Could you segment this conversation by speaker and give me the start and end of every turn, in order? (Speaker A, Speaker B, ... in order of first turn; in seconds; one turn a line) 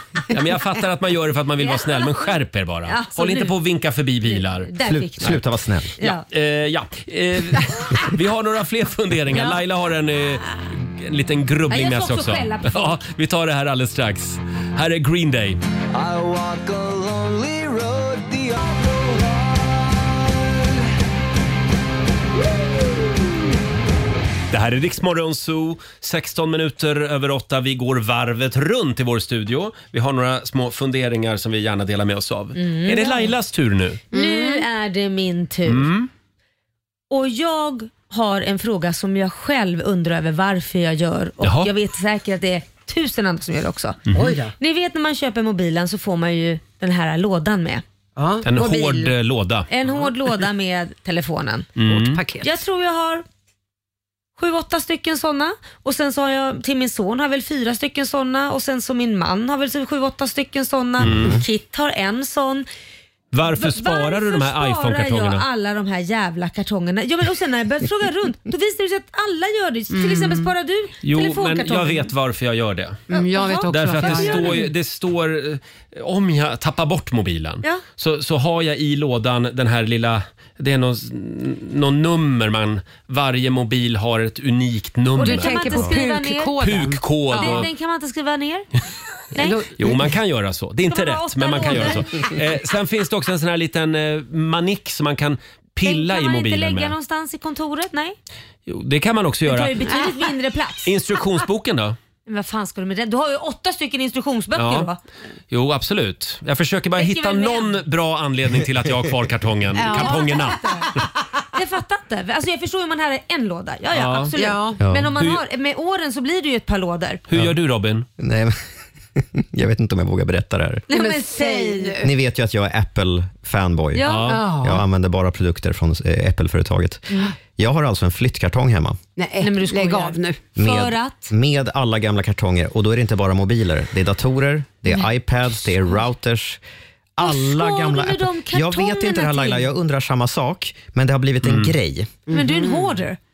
Speaker A: 0.3-4.7
Speaker B: 1.6-2.3
Speaker B: 2.9-3.5
Speaker B: 4.3-5.4
Speaker C: 4.8-5.9
Speaker B: 6.0-6.2
Speaker A: 6.0-15.6
Speaker B: 9.3-9.6
Speaker B: 11.7-13.0
Speaker D: 15.9-20.3
Speaker A: 24.5-34.0
Speaker B: 32.6-33.3
Speaker E: 34.1-34.7
Speaker B: 34.1-35.9
Speaker A: 35.7-36.1
Speaker B: 37.1-44.0
Speaker A: 41.4-41.7
Speaker A: 44.1-44.4
Speaker E: 44.1-44.5
Speaker B: 44.6-47.8
Speaker E: 48.2-49.1
Speaker A: 48.4-49.7
Speaker B: 49.7-51.7
Speaker A: 51.8-52.2
Speaker E: 51.9-52.5
Speaker B: 52.4-53.2
Speaker B: 54.4-62.7
Speaker A: 61.0-61.4
Speaker A: 63.3-65.5
Speaker B: 63.5-72.1
Speaker E: 69.9-70.5
Speaker A: 71.0-73.1
Speaker E: 73.1-74.7
Speaker B: 73.1-74.7
Speaker A: 73.7-86.0
Speaker B: 85.2-86.6
Speaker E: 85.2-87.7
Speaker A: 86.6-87.7
Speaker B: 87.3-88.7
Speaker B: 89.3-89.7
Speaker E: 89.4-90.1
Speaker A: 89.8-96.9
Speaker B: 90.9-92.3
Speaker B: 95.8-98.2
Speaker A: 98.7-99.9
Speaker B: 99.5-100.9
Speaker A: 100.8-102.0
Speaker B: 102.3-105.0
Speaker A: 104.5-104.9
Speaker A: 105.5-111.0
Speaker B: 107.0-107.8
Speaker E: 109.8-110.5
Speaker B: 109.8-110.9
Speaker B: 111.5-117.2
Speaker A: 113.9-114.4
Speaker E: 114.4-114.8
Speaker C: 114.8-115.1
Speaker A: 115.2-115.4
Speaker A: 117.3-118.1
Speaker C: 118.2-118.6
Speaker C: 119.2-120.8
Speaker B: 120.9-122.0
Speaker E: 120.9-122.1
Speaker C: 122.0-127.1
Speaker B: 124.0-124.4
Speaker A: 124.0-124.5
Speaker E: 124.3-124.8
Speaker C: 127.6-129.0
Speaker E: 129.2-130.4
Speaker B: 129.4-131.3
Speaker C: 130.6-136.6
Speaker C: 137.2-142.1
Speaker B: 137.2-139.7
Speaker A: 141.4-141.7
Speaker E: 142.3-143.0
Speaker B: 142.3-143.2